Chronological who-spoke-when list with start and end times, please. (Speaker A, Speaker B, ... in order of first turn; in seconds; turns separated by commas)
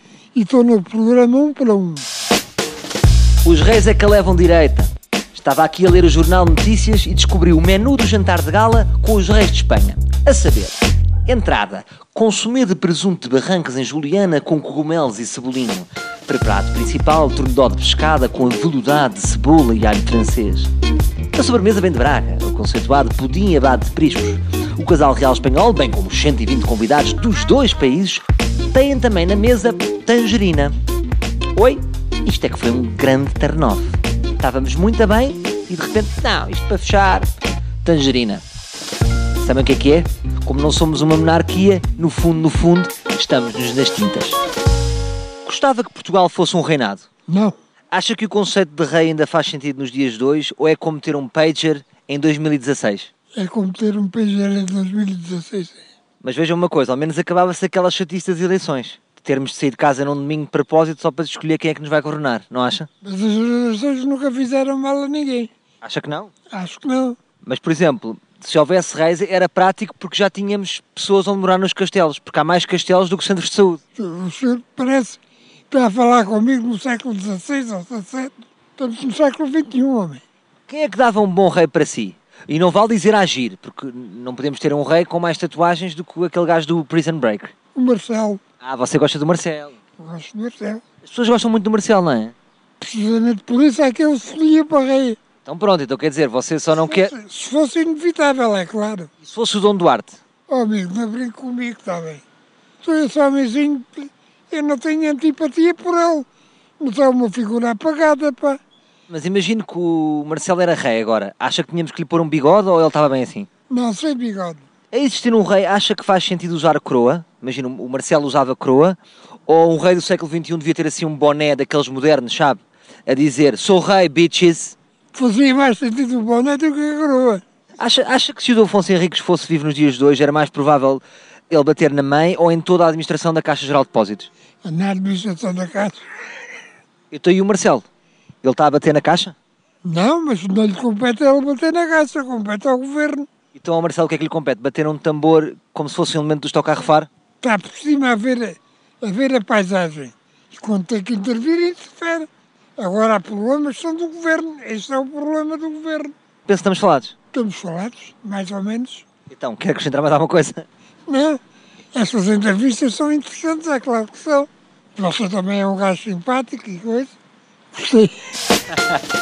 Speaker A: 0.3-2.1, Speaker B: 3.5-20.7, Speaker B: 21.3-30.7, Speaker B: 31.6-37.3, Speaker B: 37.8-38.4, Speaker B: 39.4-44.4, Speaker B: 45.5-47.1, Speaker A: 47.3-47.5, Speaker B: 47.9-53.1, Speaker A: 53.4-55.8, Speaker B: 56.2-62.9, Speaker A: 63.0-65.5, Speaker B: 65.8-66.3, Speaker A: 66.5-67.2, Speaker B: 67.4-73.8, Speaker A: 74.0-75.2, Speaker A: 75.7-80.2, Speaker B: 80.7-87.5, Speaker A: 87.8-88.4, Speaker B: 88.6-89.8, Speaker A: 90.0-90.8, Speaker B: 91.0-92.3, Speaker A: 92.8-95.2, Speaker B: 95.5-97.1, Speaker A: 96.7-99.1, Speaker B: 99.2-100.2, Speaker A: 100.5-102.2, Speaker A: 102.8-106.3, Speaker A: 106.8-108.6, Speaker B: 109.1-113.5, Speaker A: 113.7-114.6, Speaker B: 114.9-124.8, Speaker A: 125.1-127.4, Speaker B: 127.8-134.3, Speaker A: 134.6-136.0, Speaker B: 137.1-137.8, Speaker B: 138.4-139.3, Speaker A: 139.8-143.3, Speaker B: 143.6-147.1, Speaker A: 147.4-156.1, Speaker B: 156.5-157.2, Speaker A: 157.3-159.1, Speaker B: 159.3-160.7, Speaker A: 161.1-161.4, Speaker A: 161.9-167.2, Speaker A: 167.7-168.2, Speaker B: 168.7-169.0